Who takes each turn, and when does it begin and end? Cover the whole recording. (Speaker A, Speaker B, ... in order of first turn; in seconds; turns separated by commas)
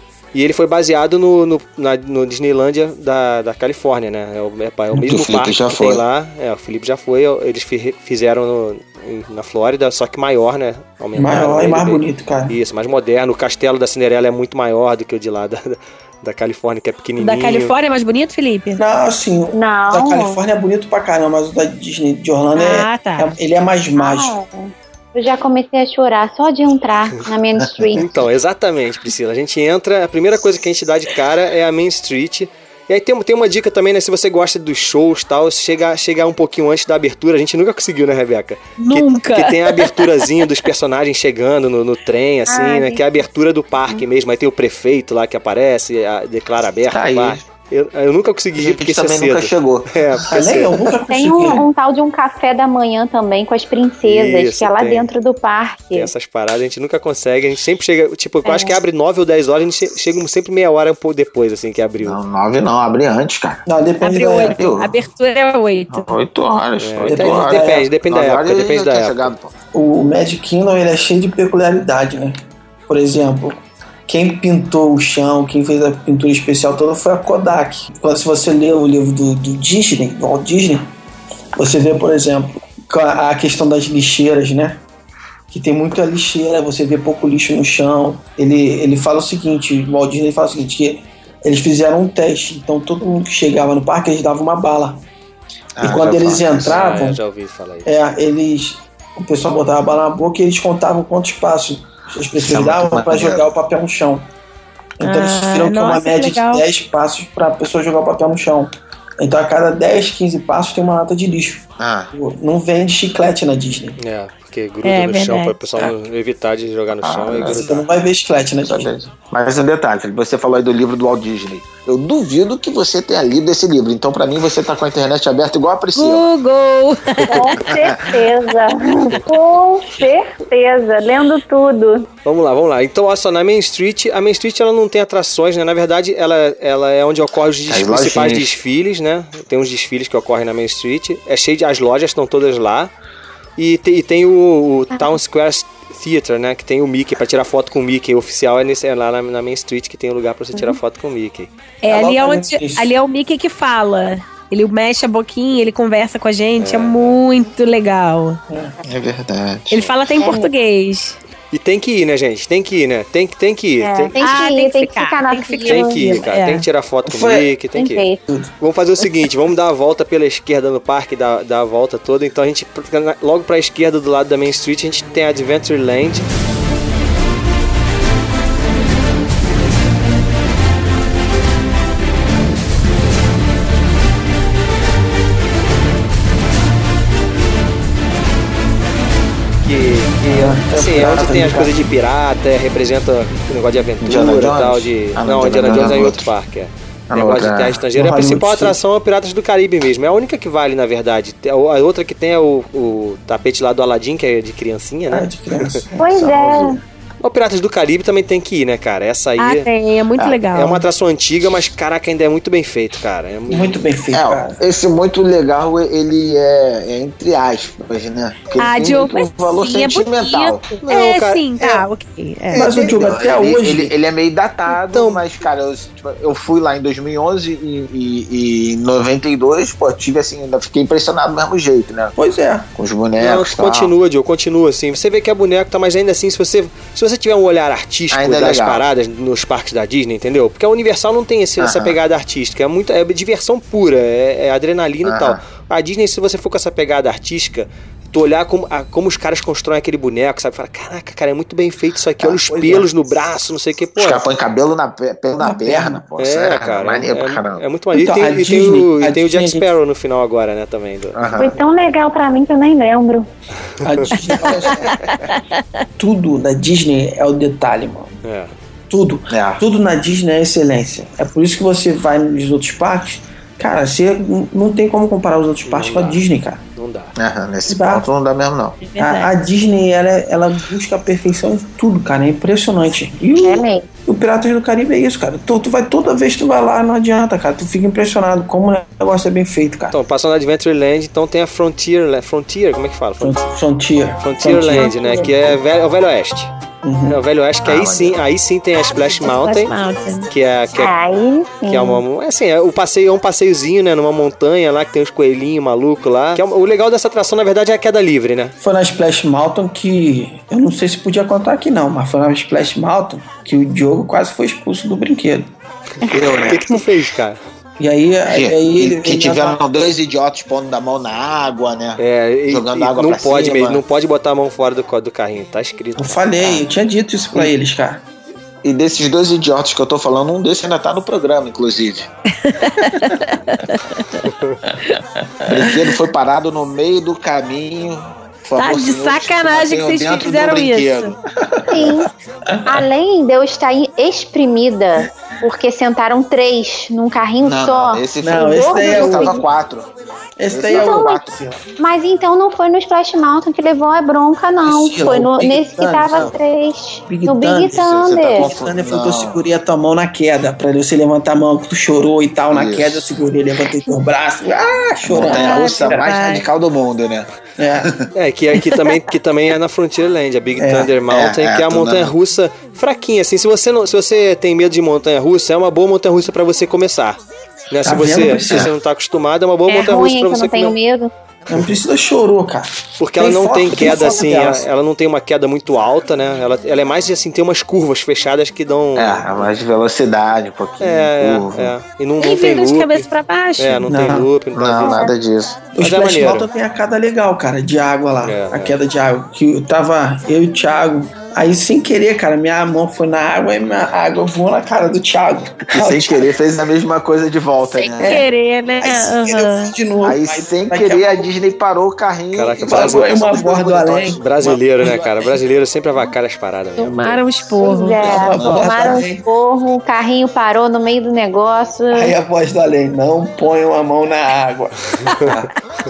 Speaker A: 0.3-17.7, Speaker B: 5.1-6.0, Speaker C: 11.2-12.6, Speaker D: 17.2-18.8, Speaker C: 18.8-24.3, Speaker E: 19.5-20.4, Speaker D: 22.6-23.3, Speaker E: 24.0-28.1, Speaker A: 27.9-50.7, Speaker D: 38.8-40.3, Speaker E: 42.5-43.0, Speaker B: 46.9-47.4, Speaker B: 48.6-49.9, Speaker C: 50.3-51.7, Speaker E: 51.1-56.1, Speaker A: 54.0-55.1, Speaker A: 55.9-62.2, Speaker B: 62.0-63.6, Speaker C: 63.7-64.7, Speaker D: 64.0-66.1, Speaker B: 64.4-64.9, Speaker B: 65.9-69.5, Speaker A: 66.8-69.3, Speaker C: 67.1-67.9, Speaker C: 69.7-72.4, Speaker C: 72.9-73.6, Speaker C: 74.1-80.9, Speaker C: 81.6-84.8, Speaker C: 85.5-95.0, Speaker B: 95.8-96.8, Speaker C: 95.8-97.2, Speaker A: 96.6-97.9, Speaker C: 97.9-104.2, Speaker B: 102.3-103.5, Speaker C: 105.0-114.0, Speaker D: 105.0-106.7, Speaker B: 111.8-112.1, Speaker A: 114.0-117.9, Speaker D: 114.8-115.6, Speaker B: 117.0-117.8, Speaker C: 117.5-118.9, Speaker B: 118.6-126.3, Speaker D: 126.0-127.5, Speaker E: 127.3-132.1, Speaker B: 127.6-128.1, Speaker A: 132.2-142.9, Speaker B: 137.7-138.5, Speaker A: 143.6-151.5, Speaker D: 151.8-158.4, Speaker C: 151.9-152.9, Speaker A: 156.6-157.2, Speaker C: 158.5-158.8, Speaker B: 158.8-159.9, Speaker D: 159.7-161.2, Speaker E: 160.2-160.5, Speaker A: 161.5-164.2, Speaker E: 163.8-166.2, Speaker D: 164.2-166.7, Speaker A: 165.7-168.1, Speaker C: 167.1-167.5, Speaker E: 167.7-168.2, Speaker A: 168.6-176.2, Speaker A: 189.6-205.8, Speaker C: 190.3-191.7, Speaker B: 194.0-196.3, Speaker B: 197.1-197.8, Speaker C: 197.9-198.8, Speaker C: 205.1-206.1, Speaker E: 206.0-206.8, Speaker B: 206.1-206.8, Speaker A: 207.2-209.7, Speaker D: 209.4-210.8, Speaker A: 210.2-213.8, Speaker C: 213.5-214.6, Speaker B: 214.1-220.7, Speaker D: 218.6-222.7, Speaker A: 220.9-221.7, Speaker C: 222.5-223.9, Speaker B: 222.5-232.2, Speaker A: 224.9-225.2, Speaker C: 232.2-232.7, Speaker B: 232.8-233.9, Speaker A: 233.2-254.2, Speaker B: 238.1-238.8, Speaker B: 241.6-242.0, Speaker B: 245.0-245.4, Speaker C: 252.5-252.8, Speaker B: 254.0-257.6, Speaker C: 255.4-256.0, Speaker A: 256.2-261.2, Speaker C: 257.9-259.7, Speaker B: 261.1-261.6, Speaker E: 261.4-263.3, Speaker C: 263.8-265.2, Speaker A: 263.9-264.2, Speaker C: 266.0-268.1, Speaker A: 268.2-268.5, Speaker C: 268.9-276.6, Speaker B: 269.3-269.6, Speaker A: 275.7-276.2, Speaker A: 276.8-277.1, Speaker B: 277.2-278.8, Speaker C: 277.7-278.1, Speaker D: 278.8-279.3, Speaker C: 279.0-290.0, Speaker E: 283.4-283.9, Speaker A: 289.9-293.5, Speaker C: 293.2-295.6, Speaker A: 294.2-296.5, Speaker C: 296.8-297.2, Speaker A: 297.1-299.7, Speaker B: 297.6-298.2, Speaker D: 299.2-300.3, Speaker A: 300.3-300.9, Speaker E: 300.7-302.0, Speaker A: 301.7-308.6, Speaker C: 308.6-315.5, Speaker B: 316.1-316.7, Speaker A: 316.1-317.4, Speaker C: 317.8-319.6, Speaker B: 318.3-323.8, Speaker A: 322.0-326.6, Speaker C: 326.0-328.0, Speaker B: 328.6-332.1, Speaker D: 332.4-334.2, Speaker A: 334.3-334.6, Speaker C: 334.9-335.8, Speaker B: 335.5-341.2, Speaker D: 338.6-341.1, Speaker C: 341.7-342.0, Speaker E: 341.7-342.1, Speaker C: 342.5-342.9, Speaker E: 342.7-349.4, Speaker B: 347.4-349.9, Speaker C: 348.2-349.4, Speaker C: 350.4-351.6, Speaker B: 350.5-351.4, Speaker E: 350.7-351.2, Speaker E: 351.8-358.5, Speaker C: 354.6-356.4, Speaker C: 357.1-366.1, Speaker B: 357.8-359.5, Speaker B: 362.5-363.1, Speaker B: 365.1-367.3, Speaker D: 365.3-366.5, Speaker C: 367.6-367.9, Speaker A: 368.1-377.2, Speaker C: 370.6-370.9, Speaker B: 371.1-372.1, Speaker A: 377.7-380.8, Speaker C: 377.9-378.7, Speaker E: 379.7-381.1, Speaker C: 381.5-384.6, Speaker A: 383.0-389.5, Speaker B: 389.0-391.7, Speaker A: 390.8-395.1, Speaker D: 392.2-393.9, Speaker C: 393.9-394.3, Speaker B: 394.5-395.6, Speaker E: 394.8-395.1, Speaker C: 395.8-406.3, Speaker A: 395.8-396.5, Speaker A: 398.2-398.8, Speaker B: 405.7-408.2, Speaker D: 408.0-409.7, Speaker C: 408.0-408.3, Speaker C: 408.8-411.3, Speaker B: 410.0-414.5, Speaker A: 412.3-413.2, Speaker C: 412.6-415.4, Speaker A: 414.2-417.2, Speaker D: 416.8-418.0, Speaker E: 417.6-422.1, Speaker C: 418.0-419.3, Speaker B: 418.1-419.0, Speaker C: 421.9-425.5